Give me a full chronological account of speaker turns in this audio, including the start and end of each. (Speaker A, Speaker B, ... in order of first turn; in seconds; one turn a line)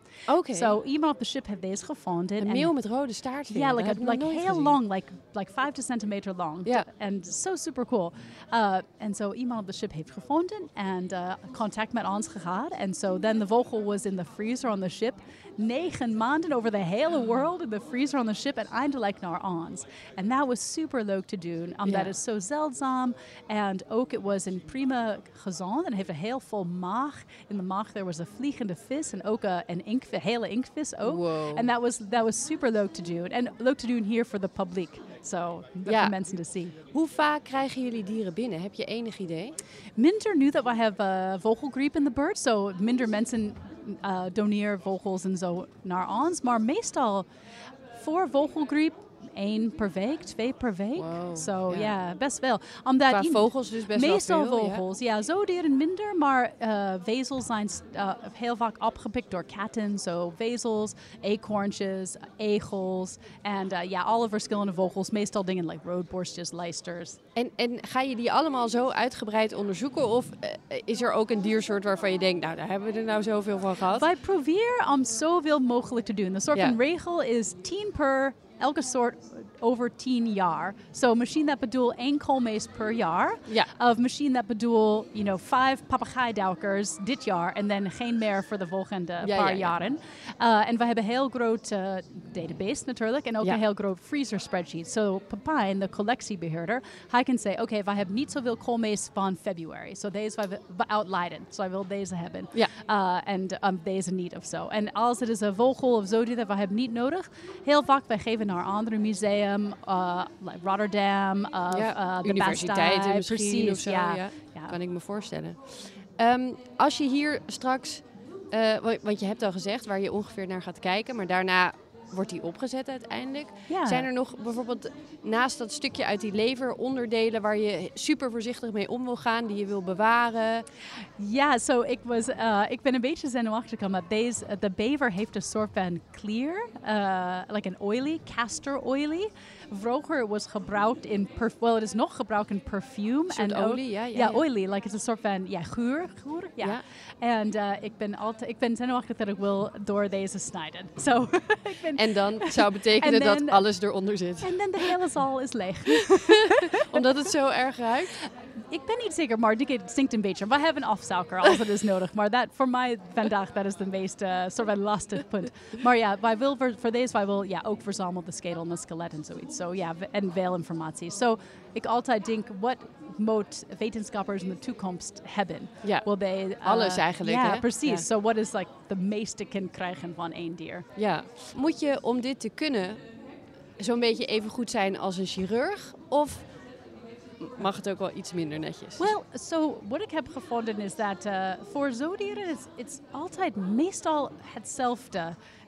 Speaker A: 0.3-0.8
Speaker B: 0.5-2.8
Speaker A: 2.4-4.8
Speaker B: 3.5-36.7
Speaker A: 21.9-22.1
Speaker A: 31.0-31.7
Speaker A: 35.9-36.1
Speaker A: 36.9-39.5
Speaker B: 40.0-47.3
Speaker B: 47.9-67.2
Speaker A: 51.0-51.9
Speaker A: 53.1-54.8
Speaker A: 67.3-74.0
Speaker B: 74.0-114.7
Speaker A: 89.2-89.7
Speaker A: 111.7-130.6
Speaker B: 123.7-124.1
Speaker B: 131.2-153.7
Speaker A: 143.3-144.4
Speaker A: 151.9-154.9
Speaker B: 154.4-157.0
Speaker A: 156.7-158.1
Speaker B: 158.2-180.9
Speaker A: 176.6-178.0
Speaker A: 180.9-183.0
Speaker A: 183.8-186.4
Speaker A: 187.4-189.1
Speaker B: 189.0-195.4